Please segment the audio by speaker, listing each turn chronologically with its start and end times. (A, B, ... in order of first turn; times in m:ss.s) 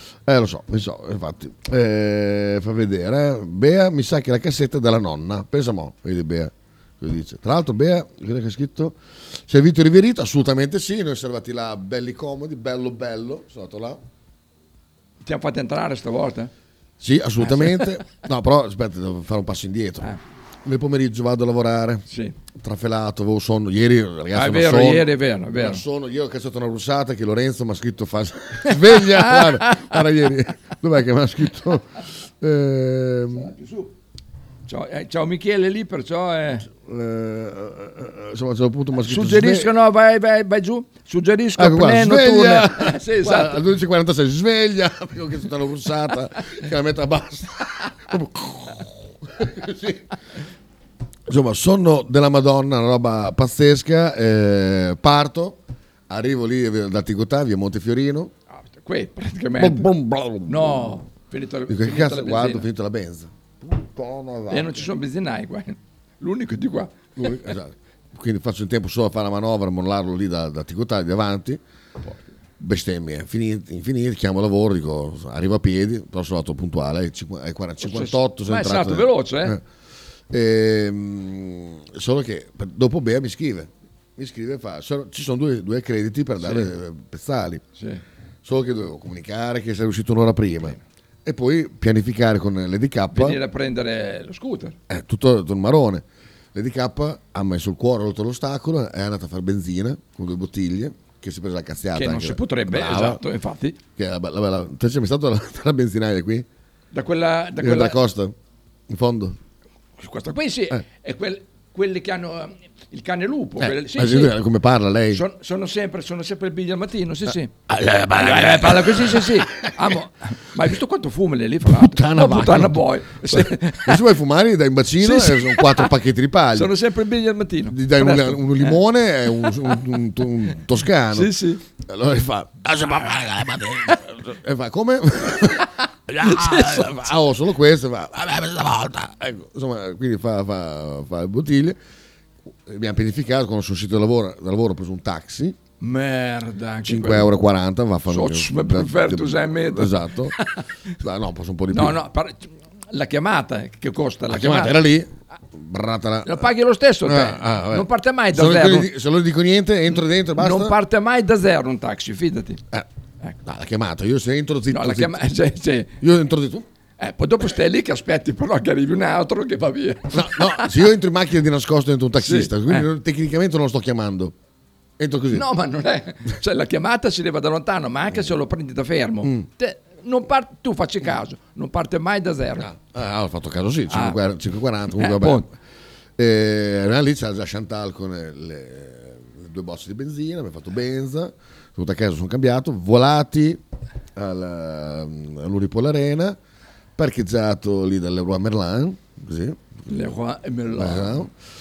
0:00.2-0:14.0 A
0:15.2-0:16.5 B
0:17.0-0:20.1 A
0:17.4-0:17.9 B
0:20.6-0:22.0 A
0:22.1-0:22.3 B
0:22.6-0:31.8 A
0:24.3-0:25.8 B
0:28.7-0:30.0 B
0:32.4-0:33.5 A
0:33.3-0:33.9 B
0:34.7-0:36.7 B
0:36.7-0:39.7 A
0:39.0-0:43.6 B
0:41.6-0:50.0 A
0:51.3-0:58.3 A
0:58.5-0:59.9 B
0:59.6-1:01.0 A
1:00.5-1:02.7 B
1:01.7-1:04.9 A
1:04.5-1:07.3 B
1:07.2-1:11.6 A
1:12.0-1:12.3 B
1:12.6-1:19.6 A
1:17.8-1:19.6 B
1:20.3-1:27.6 A
1:26.4-1:26.7 B
1:27.8-1:28.0 B
1:28.4-1:33.4 A
1:33.1-1:34.8 B
1:34.9-1:43.2 A
1:41.9-1:43.8 B
1:44.0-1:46.5 A
1:46.9-1:48.0 B
1:47.6-1:48.3 A
1:48.9-1:49.4 A
1:50.0-1:54.3 B
1:53.6-1:55.2 A
1:55.1-1:57.5 B
1:57.7-1:59.7 A
1:58.2-2:04.0 B
2:01.6-2:06.7 A
2:05.0-2:05.9 B
2:06.5-2:08.8 B
2:07.7-2:21.8 A
2:11.1-2:11.6 B
2:16.2-2:17.1 B
2:22.6-2:25.6 A
2:25.8-2:27.3 B
2:26.8-2:30.3 A
2:28.1-2:30.6 B
2:31.0-2:32.0 A
2:31.7-2:34.8 B
2:34.3-2:36.5 A
2:36.2-2:38.9 B
2:37.0-2:40.8 A
2:40.4-2:42.6 B
2:43.4-2:45.2 A
2:44.7-2:45.9 B
2:46.0-2:46.6 A
2:47.0-2:50.7 B
2:50.1-2:54.3 A
2:52.2-2:52.8 B
2:55.0-2:55.5 A
2:55.3-3:02.7 B
3:02.6-3:05.5 A
3:03.9-3:04.2 B
3:05.0-3:05.4 B
3:06.2-3:13.6 A
3:14.2-3:16.4 A
3:17.0-3:19.6 A
3:19.9-3:21.2 B
3:20.7-3:21.3 A